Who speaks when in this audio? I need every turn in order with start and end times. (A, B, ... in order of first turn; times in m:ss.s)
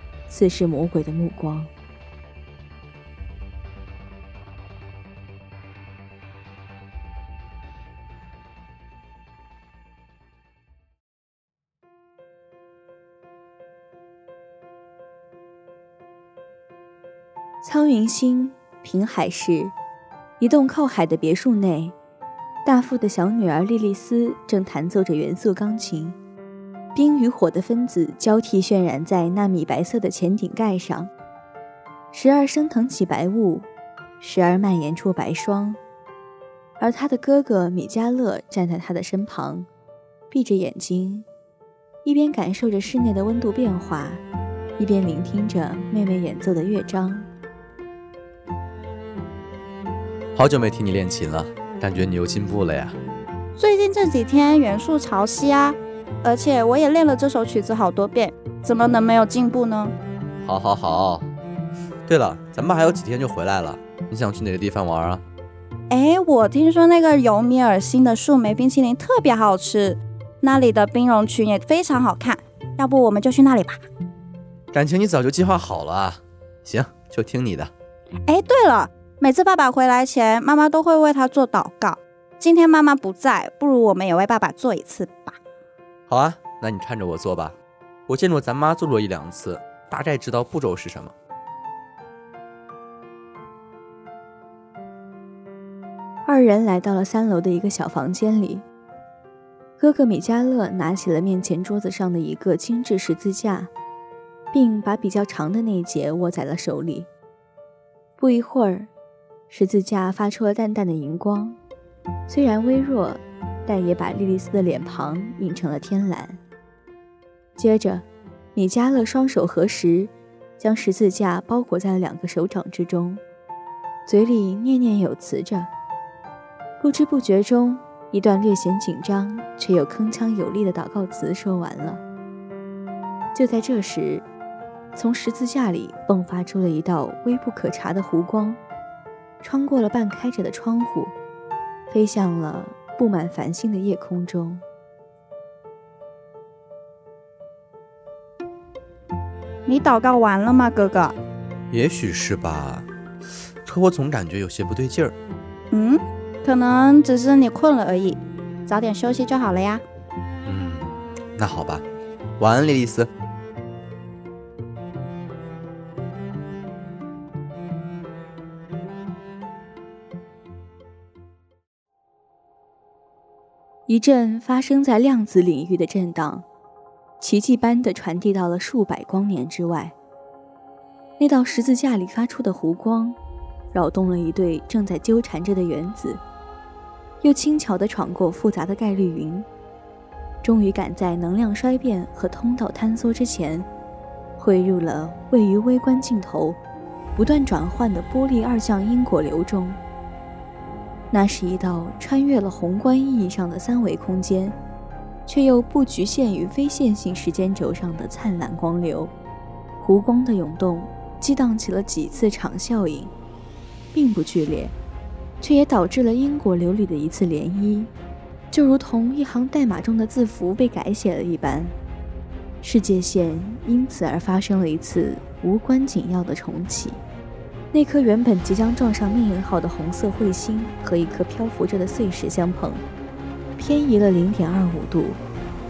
0:00.3-0:01.7 A
0:17.6-0:19.7 A
0:20.4-0:21.9 A
0:22.6-0:26.2 A
0:26.9-0:31.1 A
0:32.1-0:33.7 A
0:34.2-0:35.8 A
0:36.8-0:39.7 A
0:40.3-0:41.2 A
0:42.0-0:44.2 A
0:44.8-0:47.3 A
0:50.3-0:53.0 B
0:53.6-0:59.9 C
1:00.4-1:01.3 B
1:02.1-1:05.2 B
1:05.9-1:13.8 C
1:14.7-1:17.7 B
1:18.2-1:25.4 C
1:26.1-1:27.6 B
1:28.1-1:31.1 B
1:36.2-1:38.6 A
1:39.8-1:43.7 A
1:44.5-1:47.1 A
1:48.2-1:48.9 A
1:49.5-1:51.6 A
1:52.3-1:56.4 A
1:57.6-2:03.2 A
2:04.0-2:05.7 A
2:06.8-2:12.0 A
2:13.3-2:14.3 A
2:14.9-2:18.6 A
2:19.4-2:21.1 A
2:21.9-2:24.6 A
2:29.6-2:31.2 C
2:31.7-2:32.9 B
2:33.6-2:35.2 B
2:35.7-2:39.8 C
2:40.4-2:41.8 B
2:42.4-2:43.1 B
2:53.9-2:56.4 A
2:57.2-2:59.9 A
3:01.2-3:03.2 A
3:03.7-3:06.2 A
3:07.2-3:09.5 A
3:10.4-3:13.7 A
3:14.4-3:16.6 A
3:17.2-3:19.8 A
3:21.1-3:24.6 A
3:25.2-3:29.1 A
3:29.8-3:33.1 A
3:33.9-3:34.7 A
3:35.4-3:37.9 A
3:38.5-3:41.8 A
3:42.6-3:47.0 A
3:47.7-3:52.8 A
3:53.6-3:55.2 A